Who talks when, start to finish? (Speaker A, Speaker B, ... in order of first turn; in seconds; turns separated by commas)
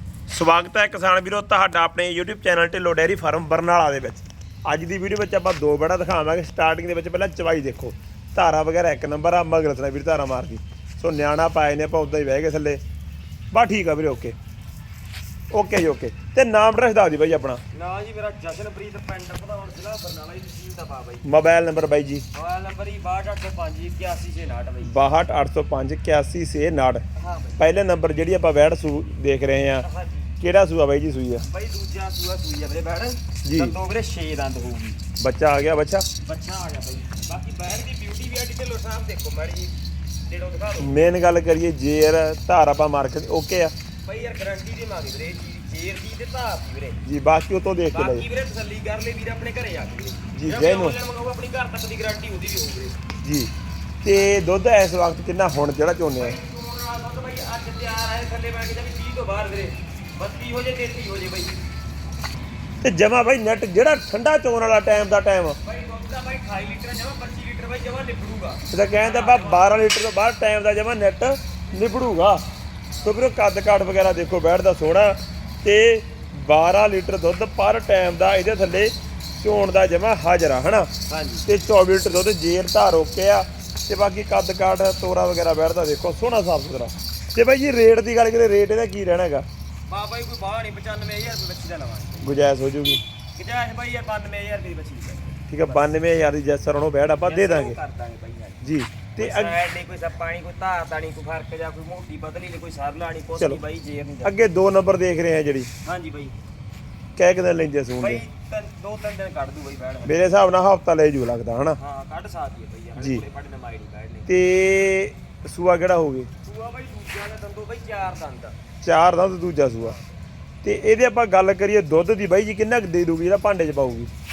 Speaker A: 0.3-12.8, Speaker A: 13.5-14.3, Speaker A: 15.5-17.6, Speaker B: 17.7-21.3, Speaker A: 21.2-22.2, Speaker B: 22.3-24.9, Speaker A: 24.8-27.0, Speaker B: 27.2-27.6, Speaker A: 27.6-29.9, Speaker B: 29.8-30.4, Speaker A: 30.4-31.4, Speaker B: 31.4-35.0, Speaker A: 33.5-33.8, Speaker A: 35.2-36.1, Speaker B: 36.2-41.1, Speaker A: 40.8-43.7, Speaker B: 44.0-47.0, Speaker A: 47.0-48.2, Speaker B: 47.9-53.0, Speaker A: 50.3-51.0, Speaker A: 53.2-53.5, Speaker A: 54.0-56.4, Speaker B: 56.2-61.6, Speaker A: 62.8-65.6, Speaker B: 65.6-69.8, Speaker A: 68.7-72.4, Speaker A: 73.0-80.9, Speaker B: 81.1-81.5, Speaker A: 81.5-89.5, Speaker B: 89.9-92.4, Speaker A: 92.2-93.0, Speaker B: 93.3-95.9, Speaker A: 95.5-97.8, Speaker B: 97.2-98.6, Speaker A: 98.6-99.5, Speaker B: 99.2-104.4, Speaker A: 104.2-105.7, Speaker B: 105.8-106.3, Speaker A: 107.2-108.2, Speaker B: 108.0-110.2, Speaker A: 110.0-111.8, Speaker B: 111.8-114.3, Speaker A: 113.0-113.2, Speaker A: 114.3-116.3, Speaker B: 116.4-118.6, Speaker A: 118.8-120.0, Speaker B: 119.8-120.1, Speaker A: 120.6-124.1